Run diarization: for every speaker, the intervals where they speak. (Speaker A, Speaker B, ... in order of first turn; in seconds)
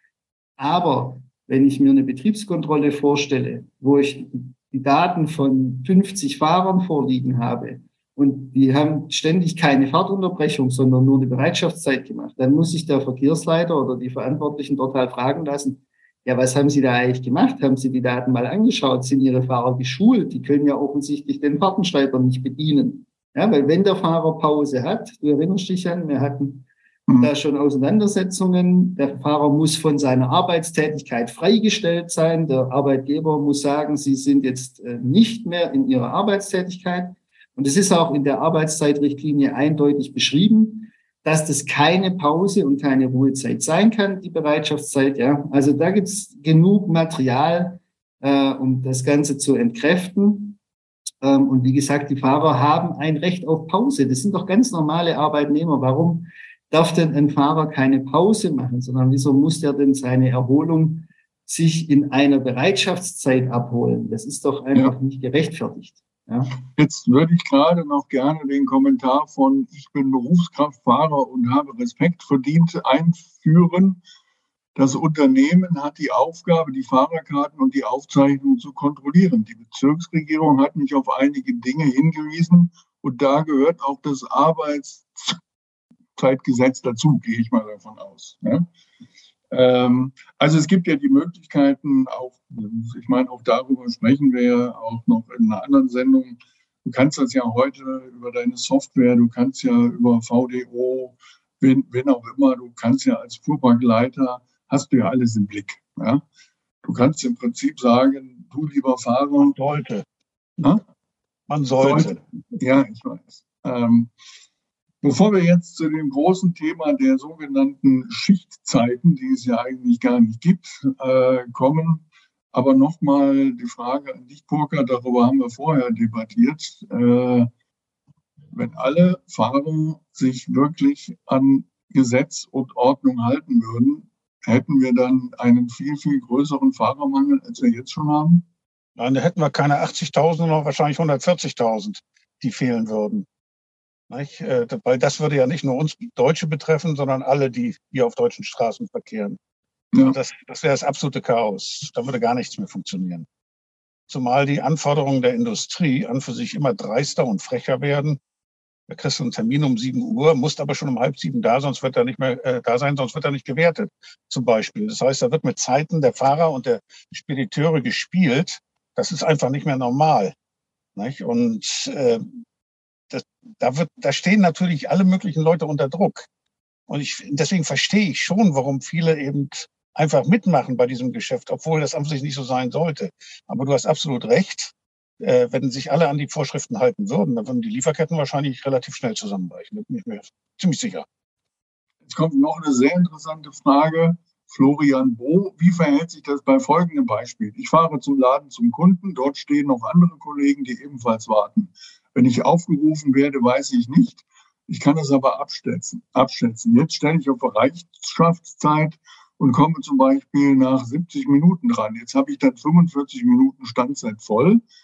Speaker A: 0.6-26.7, 27.2-50.6, 51.2-66.6
Speaker B: 27.1-27.3, 66.5-74.0, 74.8-85.4, 86.2-88.7, 89.5-106.2, 106.8-109.6, 111.8-114.1, 115.0-127.5, 128.5-138.5, 149.9-150.2, 192.1-214.6
Speaker C: 109.4-110.0, 111.5-112.2, 139.0-143.3, 144.1-149.4, 150.1-153.3, 154.1-158.2, 158.9-170.3, 171.0-172.2, 173.1-176.3, 176.9-191.1